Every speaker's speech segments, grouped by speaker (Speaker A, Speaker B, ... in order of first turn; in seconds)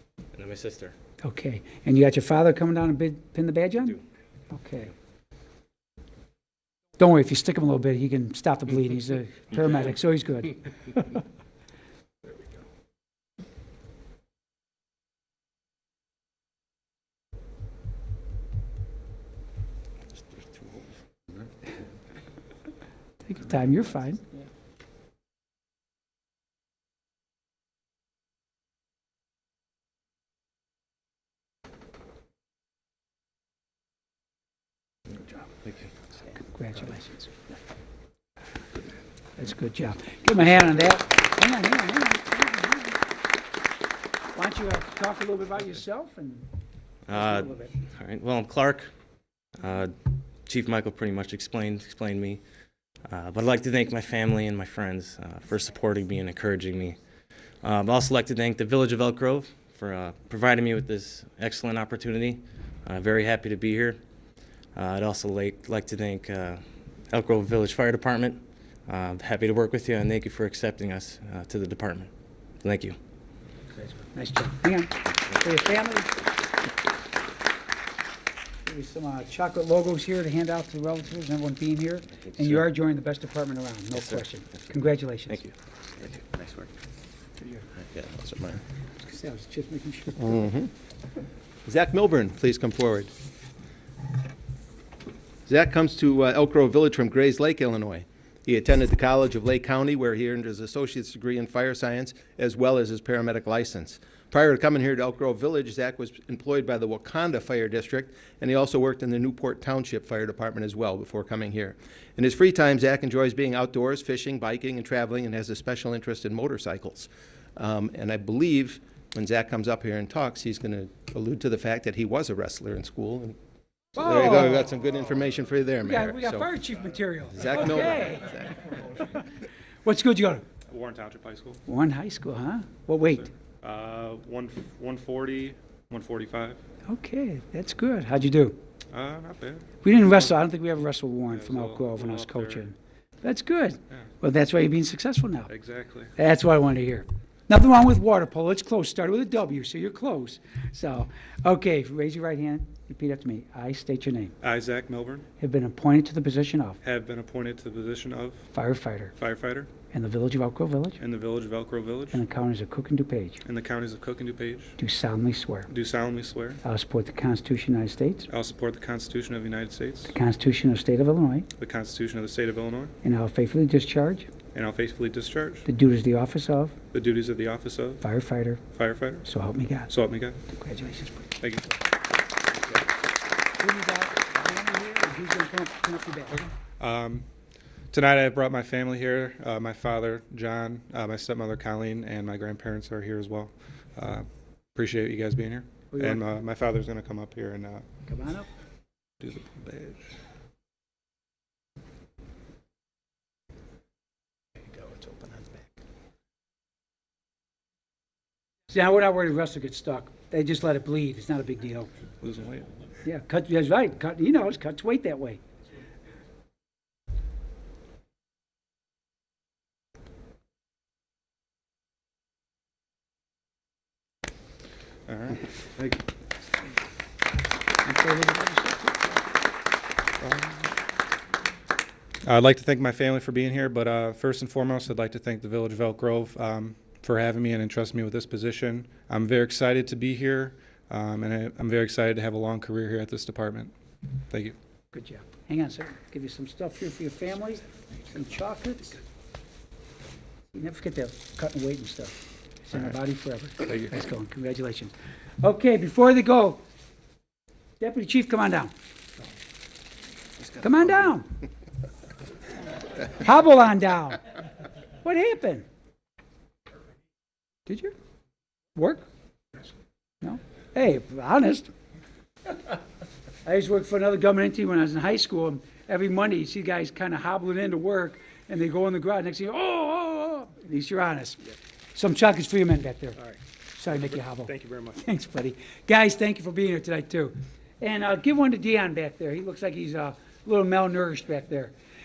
Speaker A: 0.3-0.9, 47.1-48.9, 49.6-49.9, 50.5-52.4, 53.1-57.0, 57.6-64.0, 64.7-72.1, 72.6-73.0, 82.4-82.6, 83.9-84.2, 85.3-86.7
Speaker B: 1.2-4.0, 4.5-4.9, 7.0-11.2, 23.2-24.2, 36.3-37.3, 39.4-43.0, 44.3-46.5, 47.1-47.7, 74.0-76.1, 78.6-85.5, 89.0-90.5, 124.0-124.7, 125.8-129.2, 129.8-130.4, 131.7-133.3, 136.9-138.6, 139.8-145.5, 146.2-154.3, 155.4-156.8, 158.5-159.1, 159.9-161.0, 162.1-163.4, 164.8-165.7, 166.6-168.3, 170.1-171.5, 173.0-174.3, 175.7-176.8, 178.0-178.6, 179.2-179.9, 180.5-181.3, 183.6-186.3, 195.9-196.2, 198.1-198.5, 208.7-211.9, 213.0-215.4, 227.8-229.2, 244.9-249.0, 250.5-256.6, 257.8-258.7, 260.6-261.3, 263.0-264.2, 265.0-265.6, 267.6-267.9, 268.7-269.0, 270.2-271.7, 273.4-281.4, 281.9-283.2, 283.7-291.7
Speaker C: 87.9-88.6, 90.2-90.7, 91.7-93.1, 95.5-123.4, 124.0-126.5, 127.3-128.6
Speaker D: 130.7-131.6, 133.1-136.6, 138.9-140.3, 141.3-142.6, 145.5-146.1, 154.4-155.2, 156.8-158.4, 159.2-159.7, 161.0-162.2, 163.4-164.8, 165.7-166.6, 168.3-170.1, 171.6-172.9, 174.5-175.7, 176.9-178.0, 178.7-179.3, 179.9-180.4, 181.4-181.7, 186.3-187.3, 187.9-197.8, 199.2-200.1, 212.2-212.7, 225.1-225.4, 230.2-230.8, 232.2-243.7, 244.3-244.6, 284.0-285.0